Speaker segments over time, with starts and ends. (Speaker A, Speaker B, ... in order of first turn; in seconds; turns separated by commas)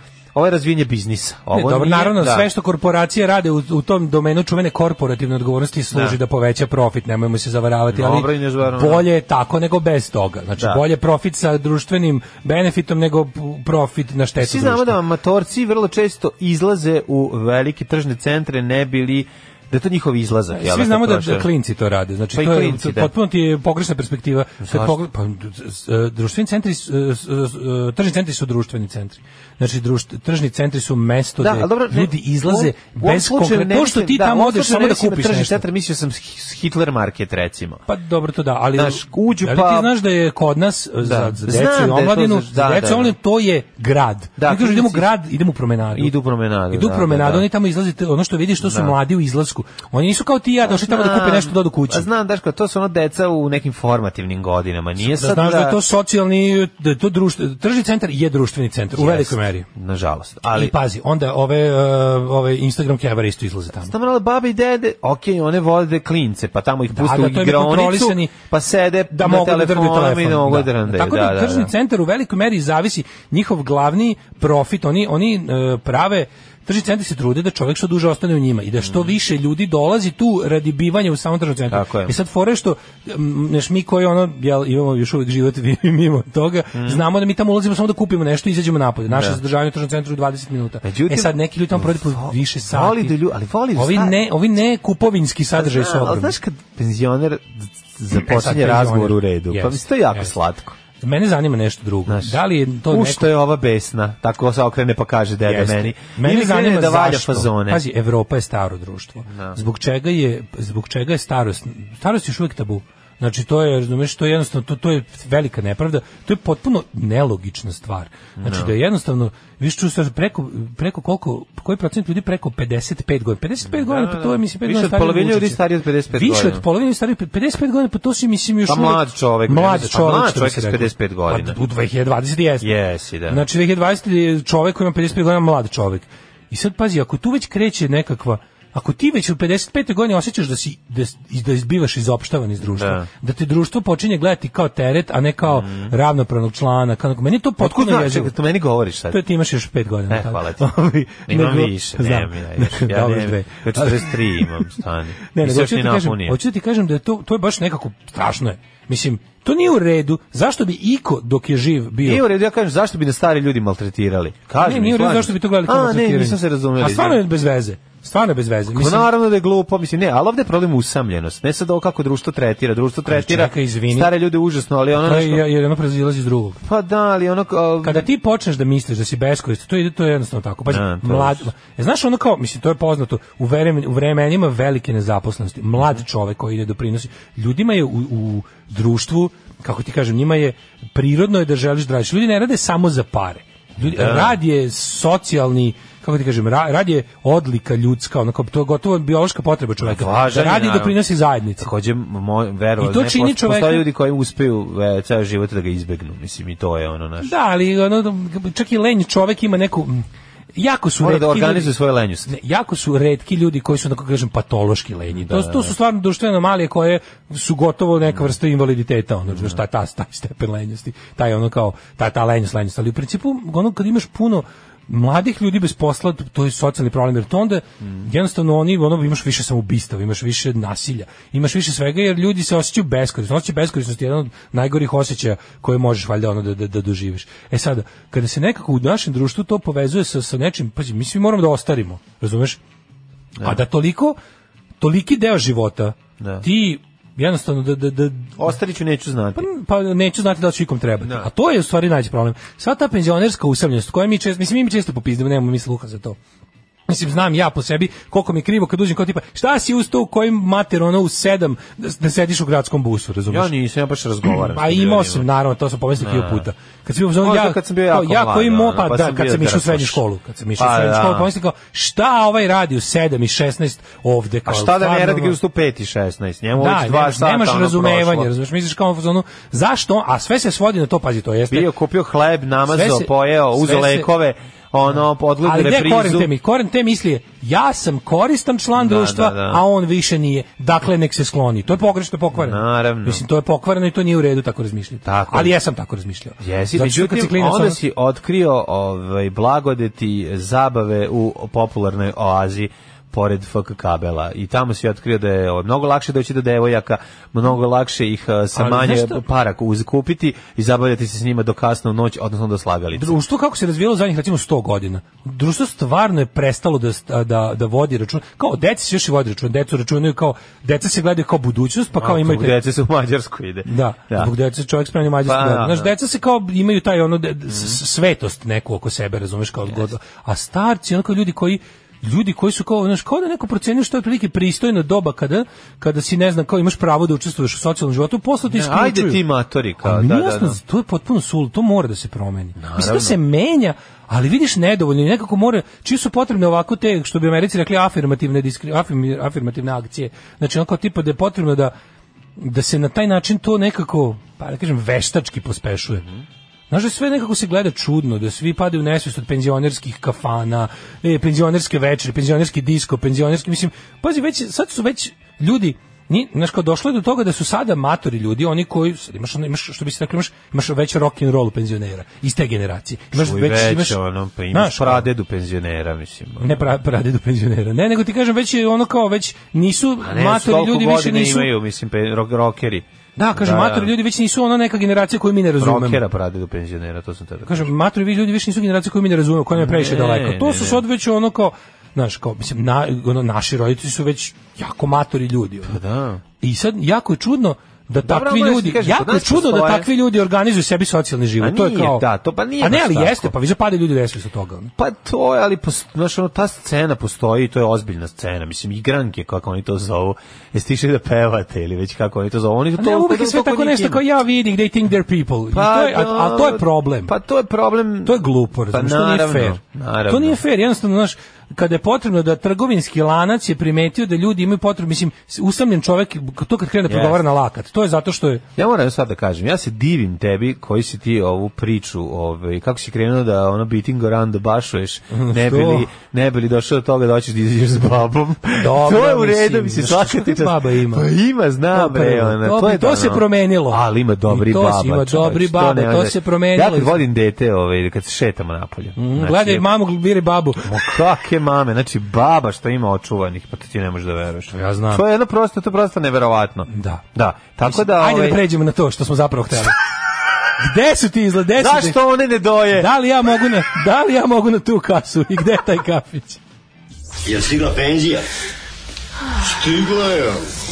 Speaker A: 0.3-2.5, Speaker B: 1.5-15.0, Speaker A: 5.9-6.2, Speaker A: 7.9-9.1, Speaker A: 10.6-10.8, Speaker A: 14.4-21.5, Speaker B: 20.5-35.6, Speaker A: 22.3-23.1, Speaker A: 24.6-25.0, Speaker A: 31.4-37.8, Speaker B: 37.9-46.1, Speaker A: 38.8-39.9, Speaker A: 41.0-43.1, Speaker A: 44.4-45.1, Speaker A: 45.9-47.5, Speaker B: 46.7-52.1, Speaker A: 48.6-48.9, Speaker A: 50.6-55.8, Speaker B: 55.0-59.6, Speaker A: 58.9-60.7, Speaker B: 60.5-63.9, Speaker A: 63.8-71.7, Speaker B: 66.9-68.3, Speaker B: 69.1-93.2, Speaker A: 78.8-79.1, Speaker A: 81.7-82.1, Speaker A: 86.7-87.0, Speaker A: 89.1-89.4, Speaker A: 90.8-94.2, Speaker B: 93.8-96.3, Speaker A: 95.5-100.7, Speaker B: 98.1-100.3, Speaker B: 101.0-103.3, Speaker A: 102.1-107.8, Speaker B: 105.4-125.6, Speaker A: 109.3-109.6, Speaker A: 118.4-118.7, Speaker A: 123.6-126.6, Speaker B: 126.1-132.7, Speaker A: 128.7-131.6, Speaker A: 132.6-133.4, Speaker B: 133.3-148.3, Speaker A: 142.8-143.1, Speaker A: 145.4-145.9, Speaker A: 147.6-149.2, Speaker B: 149.1-162.2, Speaker A: 150.1-150.7, Speaker A: 151.2-156.4, Speaker A: 162.0-167.2, Speaker B: 164.6-169.1, Speaker A: 168.7-175.4, Speaker B: 173.1-174.1, Speaker B: 175.0-176.6, Speaker A: 176.6-178.1, Speaker B: 177.8-201.7, Speaker A: 180.7-181.5, Speaker A: 193.8-194.4, Speaker A: 199.8-201.0, Speaker A: 201.6-207.3, Speaker B: 202.8-203.9, Speaker B: 207.2-210.0, Speaker B: 210.6-211.7, Speaker A: 211.0-212.3, Speaker B: 212.2-242.6, Speaker A: 215.1-215.7, Speaker A: 219.3-219.6, Speaker B: 243.4-244.2, Speaker B: 244.8-248.4, Speaker A: 246.2-246.4, Speaker A: 248.4-249.4, Speaker B: 249.3-256.2, Speaker A: 251.0-251.3, Speaker B: 256.9-263.5, Speaker A: 263.3-265.3, Speaker B: 264.4-275.4, Speaker A: 266.0-266.5, Speaker A: 267.2-270.0, Speaker A: 270.6-271.3, Speaker A: 274.4-278.3, Speaker B: 276.6-281.7, Speaker A: 281.5-286.3, Speaker B: 282.7-284.1, Speaker B: 285.4-297.8, Speaker A: 288.8-289.6, Speaker A: 292.3-293.2, Speaker A: 295.0-295.5, Speaker A: 296.4-313.2, Speaker B: 308.5-309.2, Speaker B: 312.9-322.6, Speaker A: 322.0-324.3, Speaker B: 323.6-339.2, Speaker A: 325.2-325.9, Speaker A: 327.5-327.8, Speaker A: 338.5-340.6, Speaker B: 339.8-351.7, Speaker A: 342.6-343.1, Speaker B: 352.4-356.1, Speaker B: 356.7-374.0, Speaker A: 373.1-376.6, Speaker B: 374.5-375.1, Speaker B: 376.4-381.5, Speaker A: 380.0-382.9, Speaker B: 383.1-386.0, Speaker A: 383.4-383.9, Speaker A: 385.6-387.7, Speaker B: 387.4-395.8, Speaker A: 389.5-390.8, Speaker A: 395.7-396.2, Speaker B: 396.4-402.0, Speaker A: 398.0-399.9, Speaker A: 401.4-403.3, Speaker B: 402.6-404.7, Speaker A: 404.8-414.0, Speaker B: 412.8-417.1, Speaker A: 415.5-420.4, Speaker B: 418.0-428.4, Speaker A: 426.9-427.2, Speaker A: 428.6-449.7, Speaker B: 435.1-435.9, Speaker B: 438.6-441.1, Speaker B: 441.7-447.0, Speaker B: 449.0-450.8, Speaker A: 450.6-458.4, Speaker B: 454.5-455.0, Speaker B: 456.7-457.0, Speaker B: 457.6-459.7, Speaker B: 460.6-462.0, Speaker A: 461.6-462.9, Speaker B: 462.7-466.4, Speaker C: 467.2-468.2, Speaker C: 469.4-470.5